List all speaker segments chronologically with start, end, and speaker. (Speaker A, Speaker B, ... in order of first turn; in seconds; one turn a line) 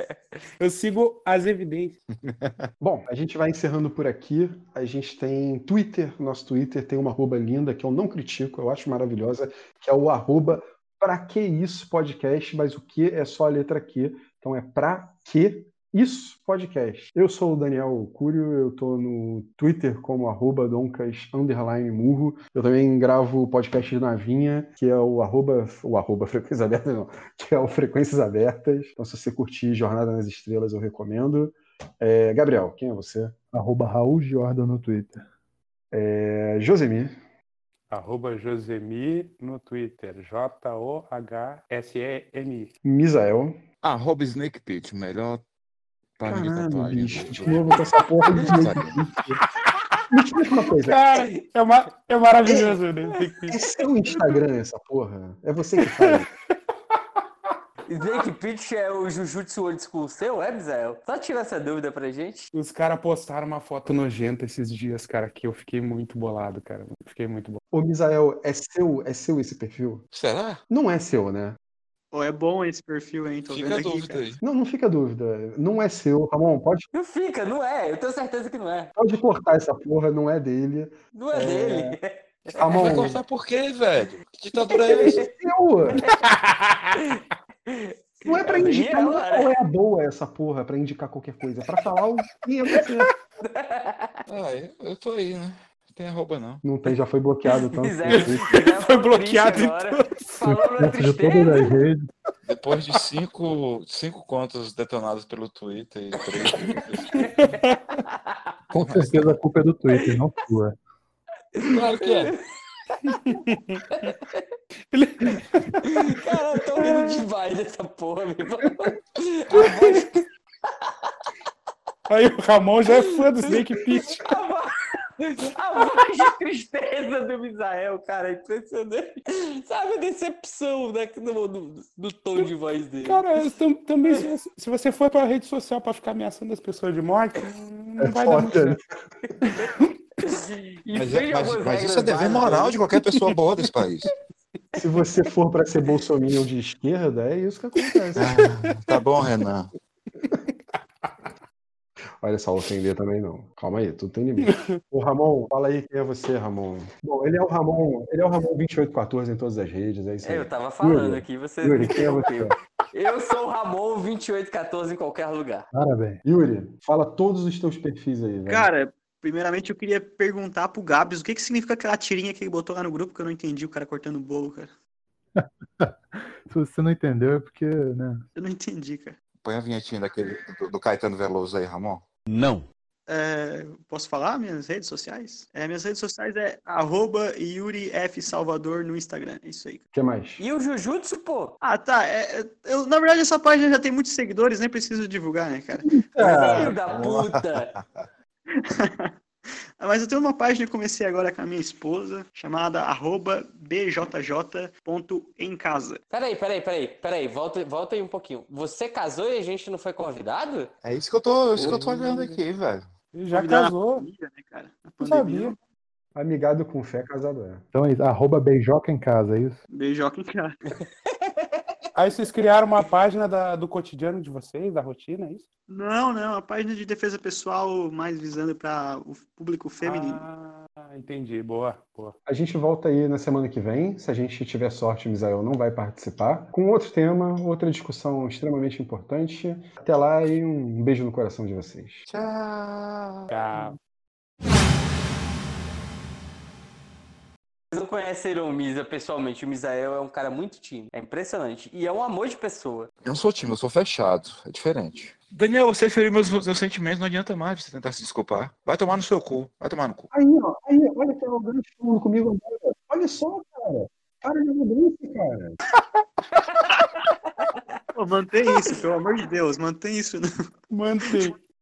Speaker A: 0.6-2.0
Speaker B: 2.2-2.7
Speaker C: 2.8-33.4
Speaker D: 33.5-35.2
Speaker C: 35.9-37.2
Speaker A: 37.9-42.7
Speaker C: 42.8-43.6
Speaker B: 43.8-45.4
Speaker B: 46.2-47.8
Speaker C: 46.3-49.4
Speaker B: 48.3-49.0
Speaker C: 50.1-51.0
Speaker A: 50.9-54.4
Speaker C: 52.4-52.8
Speaker C: 53.5-56.3
Speaker A: 55.8-56.2
Speaker E: 57.9-62.5
Speaker A: 62.5-67.6
Speaker C: 67.7-70.0
Speaker B: 70.1-70.6
Speaker C: 70.7-71.6
Speaker F: 72.1-74.3
Speaker B: 73.5-74.4
Speaker C: 74.4-76.9
Speaker E: 76.9-78.9
Speaker C: 79.0-83.2
Speaker E: 81.2-82.9
Speaker B: 82.6-85.2
Speaker E: 84.7-85.3
Speaker C: 84.9-86.0
Speaker E: 85.9-86.3
Speaker A: 86.1-87.0
Speaker E: 87.0-89.5
Speaker C: 88.3-93.1
Speaker E: 93.4-94.2
Speaker B: 94.3-96.6
Speaker C: 96.6-98.7
Speaker E: 97.8-101.7
Speaker A: 98.1-100.2
Speaker D: 100.5-102.1
Speaker B: 102.5-107.3
Speaker A: 107.3-107.8
Speaker E: 108.0-108.5
Speaker D: 108.7-110.8
Speaker B: 108.8-109.4
Speaker E: 109.9-110.2
Speaker E: 111.5-114.4
Speaker B: 111.6-112.3
Speaker A: 113.1-114.1
Speaker A: 114.9-117.2
Speaker E: 116.0-120.1
Speaker A: 119.5-120.2
Speaker E: 120.8-121.1
Speaker A: 122.1-124.3
Speaker E: 122.9-123.6
Speaker E: 124.1-133.4
Speaker A: 133.0-138.8
Speaker C: 138.2-138.8
Speaker E: 139.3-142.8
Speaker A: 139.4-139.7
Speaker B: 140.9-144.1
Speaker A: 143.1-143.3
Speaker C: 144.8-148.3
Speaker B: 148.2-149.7
Speaker C: 152.2-162.6
Speaker A: 154.4-154.8
Speaker E: 160.2-165.7
Speaker D: 165.7-166.2
Speaker C: 166.3-168.7
Speaker F: 168.5-174.7
Speaker D: 175.4-178.2
Speaker F: 178.4-179.2
Speaker B: 179.4-182.1
Speaker F: 183.1-189.8
Speaker C: 189.9-190.4
Speaker E: 190.4-191.6
Speaker F: 191.6-196.7
Speaker C: 195.8-196.8
Speaker E: 196.2-197.7
Speaker B: 196.8-197.8
Speaker F: 198.5-199.1
Speaker F: 199.8-206.0
Speaker E: 206.1-210.7
Speaker B: 210.8-212.9
Speaker A: 211.6-212.4
Speaker A: 213.1-214.1
Speaker F: 213.3-215.6
Speaker A: 215.0-215.6
Speaker C: 216.2-217.7
Speaker D: 217.7-219.6
Speaker F: 219.7-220.6
Speaker E: 221.2-221.6
Speaker A: 221.9-225.4
Speaker F: 225.7-230.2
Speaker A: 229.8-232.2
Speaker C: 232.3-242.1
Speaker B: 242.1-243.7
Speaker A: 243.3-243.8
Speaker E: 247.7-252.9
Speaker B: 253.1-260.1
Speaker C: 260.1-265.6
Speaker F: 267.9-270.3
Speaker A: 270.7-271.4